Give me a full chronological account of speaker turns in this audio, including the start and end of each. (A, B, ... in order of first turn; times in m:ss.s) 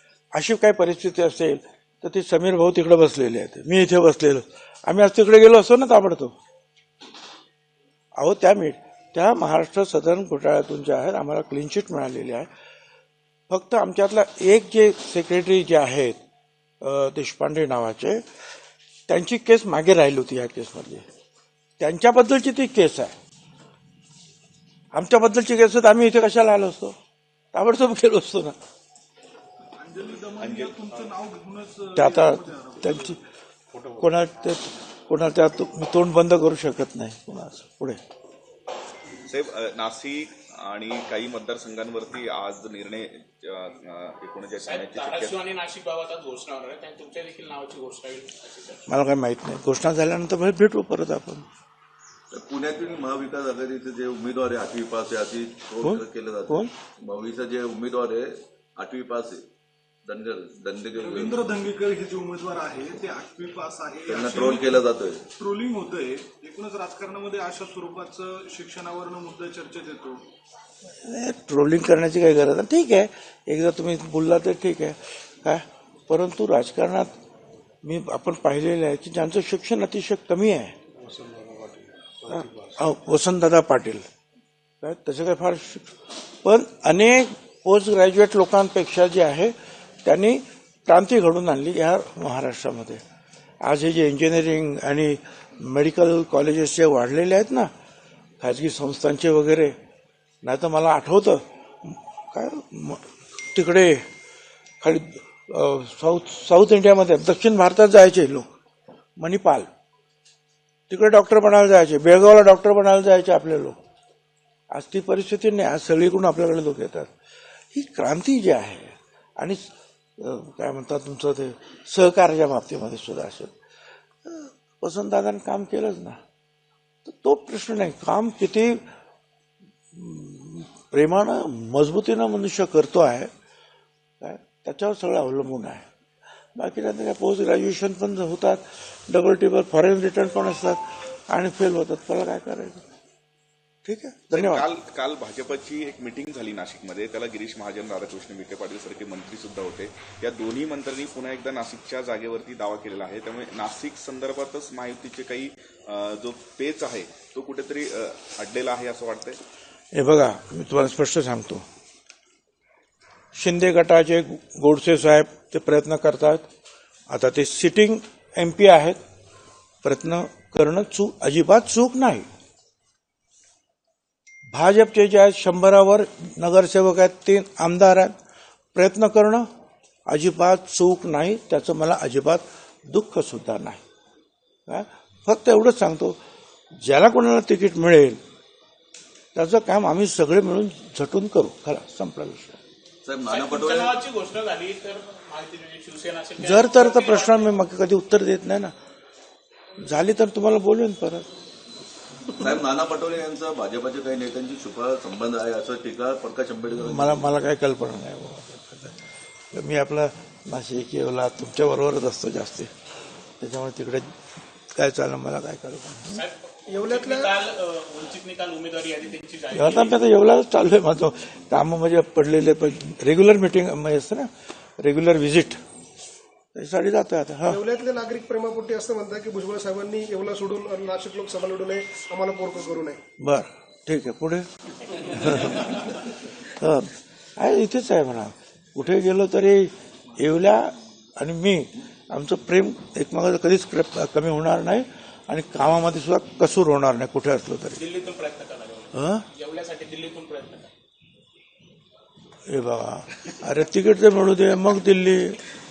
0:00.3-0:06.4 A
0:08.2-0:12.5 A
0:13.5-0:16.2 A
0:16.8-0:18.2 A
0:19.1-0:21.0 A
0:21.8-0:23.1 A
0:24.9-0:26.9 A
0:27.5-0:28.5 A
0:29.8-0:32.9 B
0:32.0-0:33.2 A
0:34.0-0:38.0 A
0:39.3-0:44.6 C
0:44.2-0:45.3 D
0:44.6-0:48.8 E
0:48.9-0:51.4 A
0:52.3-0:59.4 D
0:55.8-0:56.7 A
1:00.0-1:01.4 D
1:00.9-1:04.8 B
1:04.1-1:05.2 D
1:05.4-1:10.2 B
1:11.0-1:17.1 A
1:17.8-1:20.7 A
1:21.2-1:21.8 D
1:22.3-1:24.0 A
1:24.8-1:33.0 A
1:33.6-1:37.7 A
1:38.4-1:39.7 A
1:40.4-1:44.0 A
1:44.8-1:48.4 A
1:49.2-1:49.7 A
1:50.9-1:53.8 A
1:54.7-1:57.1 A
1:57.7-1:59.6 A
2:00.2-2:03.5 A
2:04.2-2:06.2 A
2:07.0-2:08.8 A
2:09.9-2:13.3 A
2:14.2-2:15.8 A
2:16.5-2:22.8 A
2:23.8-2:24.7 A
2:24.5-2:39.3 C
2:38.4-2:38.7 D
2:39.9-2:41.6 A
2:43.3-2:46.5 A
2:47.1-2:49.0 A
2:49.8-2:52.3 A
2:54.5-2:58.1 A
2:58.7-2:59.4 A
3:00.1-3:03.8 A
3:04.7-3:06.2 A
3:06.8-3:08.2 A
3:09.3-3:12.6 A
3:13.0-3:14.0 D
3:13.2-3:17.5 E
3:16.4-3:18.7 A
3:19.8-3:21.3 A
3:22.4-3:27.2 D
3:26.8-3:29.0 A
3:29.5-3:32.7 A
3:33.4-3:34.1 A
3:34.8-3:36.2 A
3:36.1-3:40.0 E
3:36.7-3:37.3 F
3:39.5-3:45.6 A
3:46.5-3:47.6 A
3:47.5-3:53.0 F
3:53.2-3:54.4 A
3:55.1-3:56.0 A
3:56.6-4:07.8 A
4:07.8-4:10.7 E
4:08.9-4:09.2 A
4:12.5-4:15.4 A